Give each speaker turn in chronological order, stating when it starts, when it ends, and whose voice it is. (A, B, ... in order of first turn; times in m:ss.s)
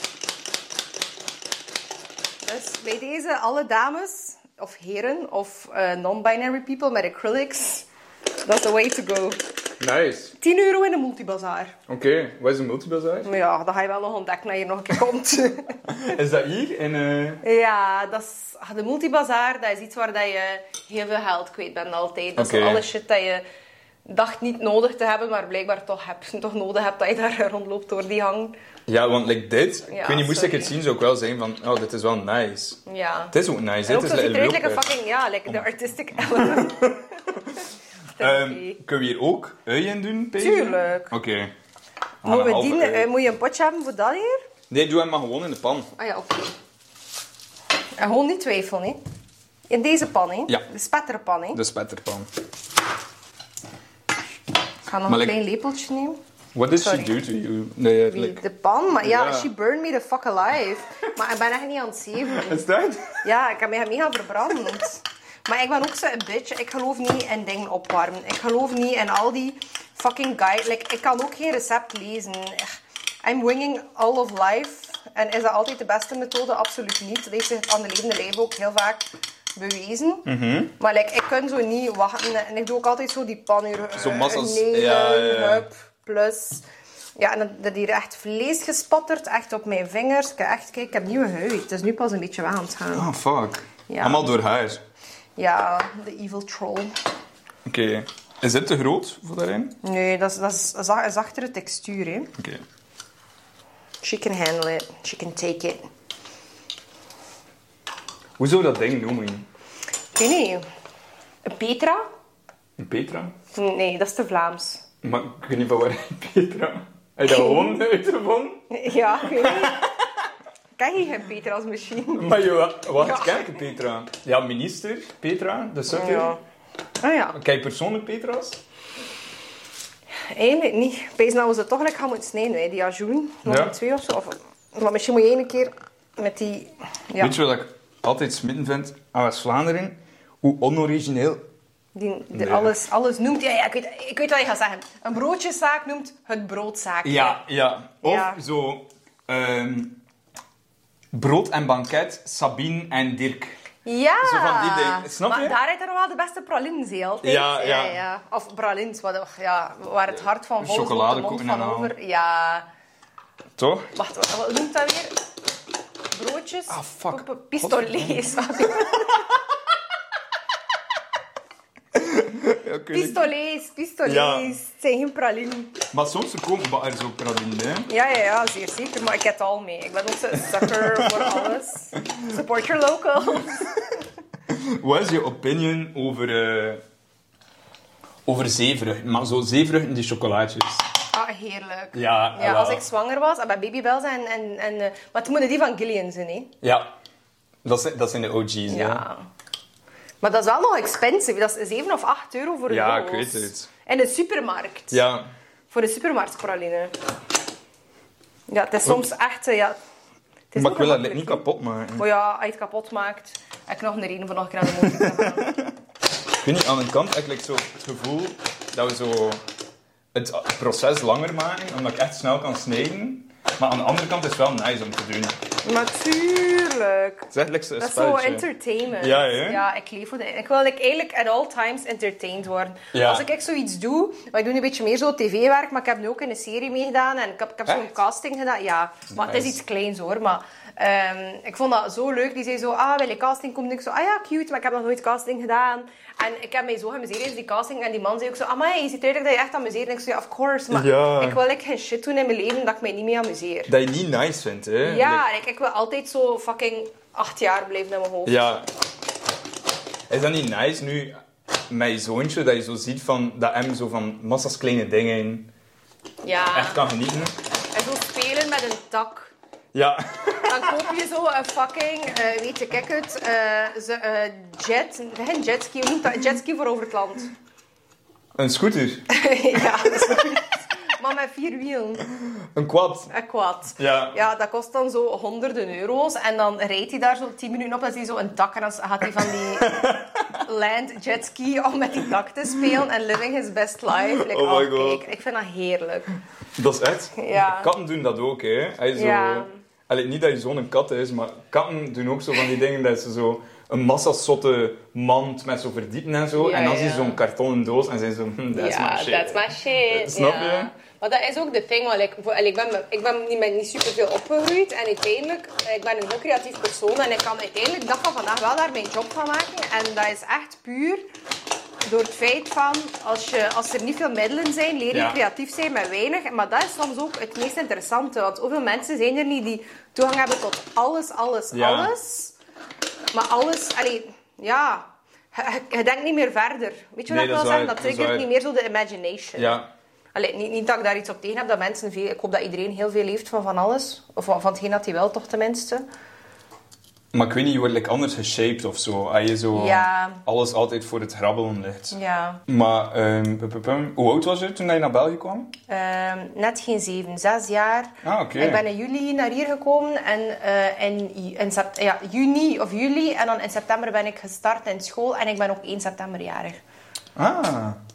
0:02.4-0:07.9 A
0:08.4-0:09.4 A
0:09.8-0:10.4 B
0:10.4-0:11.8 A
0:11.9-0:13.3 B
0:13.2-0:15.8 A
0:15.9-0:17.4 B
0:17.4-0:23.4 A
0:22.4-0:22.8 B
0:24.0-0:28.6 A
0:28.9-0:32.8 B
0:29.9-0:30.8 A
0:32.9-0:37.0 A
0:33.3-0:34.9 B
0:36.2-0:37.6 B
0:38.2-0:38.8 A
0:38.2-0:41.5 B
0:40.4-0:41.1 A
0:42.2-0:43.1 B
0:42.2-0:44.4 A
0:44.7-0:45.9 B
0:46.0-0:46.5 A
0:48.0-0:49.0 A
0:49.7-0:51.6 A
0:51.5-0:52.3 B
0:54.9-0:56.2 A
0:55.1-0:55.4 B
0:56.5-0:58.4 B
0:56.8-0:57.1 A
0:58.1-1:02.6 A
0:59.0-0:59.5 B
1:02.3-1:03.2 B
1:03.2-1:20.3 A
1:20.3-1:20.7 B
1:20.8-1:26.6 A
1:23.9-1:25.7 B
1:27.2-1:33.1 A
1:32.9-1:34.8 B
1:33.9-1:34.3 A
1:35.4-1:37.0 A
1:37.7-1:39.8 B
1:39.8-1:42.3 A
1:42.4-1:42.6 B
1:44.0-1:45.9 A
1:48.4-1:49.5 B
1:50.2-1:50.6 A
1:51.4-1:52.0 A
1:52.8-1:53.4 B
1:53.5-1:54.8 A
1:55.0-1:58.7 B
1:57.3-1:57.8 A
1:58.7-1:59.8 A
1:59.2-1:59.9 B
2:00.8-2:02.4 A
2:02.2-2:06.3 B
2:03.0-2:03.6 A
2:05.9-2:06.4 A
2:07.0-2:07.4 A
2:07.3-2:08.6 B
2:10.3-2:17.4 A
2:13.4-2:13.8 B
2:17.2-2:21.4 B
2:22.0-2:27.4 A
2:22.3-2:22.7 B
2:27.0-2:30.0 B
2:28.0-2:28.4 A
2:31.1-2:33.6 B
2:33.8-2:42.7 A
2:34.2-2:35.6 B
2:37.2-2:38.0 B
2:40.6-2:41.9 B
2:43.6-2:43.9 B
2:44.0-2:45.2 A
2:46.1-2:49.2 A
2:46.7-2:49.0 B
2:52.0-2:53.3 B
2:52.9-2:55.8 A
2:54.0-2:54.6 B
2:55.9-2:57.9 B
2:57.9-3:04.0 A
3:00.6-3:01.4 B
3:04.5-3:06.8 B
3:08.3-3:10.8 B
3:11.1-3:16.5 A
3:11.9-3:12.8 B
3:16.6-3:16.9 B
3:17.6-3:19.1 B
3:18.7-3:19.3 A
3:20.2-3:25.0 A
3:22.7-3:23.7 B
3:24.9-3:25.3 B
3:25.7-3:27.0 A
3:28.5-3:29.8 A
3:30.5-3:31.4 A
3:30.6-3:32.1 B
3:32.0-3:35.5 A
3:34.8-3:35.7 B
3:36.4-3:39.4 B
3:40.1-3:45.4 B
3:45.6-4:13.7 A
3:47.3-3:49.6 B
3:52.9-3:53.3 B
3:59.1-3:59.6 B
4:10.7-4:11.4 B
4:13.7-4:15.2 B
4:14.8-4:18.4 A
4:18.3-4:18.7 B
4:20.1-4:21.2 B
4:21.7-4:25.5 B
4:26.2-4:26.8 A
4:26.5-4:27.4 B
4:27.7-4:29.3 A
4:29.7-4:30.8 B
4:30.4-4:37.3 A
4:38.4-4:39.1 B
4:39.1-4:42.0 A
4:42.5-4:43.1 B
4:43.1-4:56.1 A
4:43.8-4:44.2 B
4:49.6-4:50.4 B
4:54.0-4:55.1 B
4:56.6-5:10.7 B
4:57.2-4:57.7 A
4:59.0-4:59.6 A
5:06.4-5:07.2 A
5:08.5-5:21.1 A
5:21.8-5:32.4 A
5:24.9-5:25.2 B
5:31.5-5:31.9 B
5:33.1-5:39.6 A
5:37.1-5:38.3 B
5:39.4-5:39.7 B
5:40.1-5:45.9 A
5:47.1-5:55.5 B
5:49.5-5:50.2 A
5:51.9-5:52.4 A
5:55.7-6:06.6 A
5:58.0-5:58.6 B
6:07.2-6:07.8 B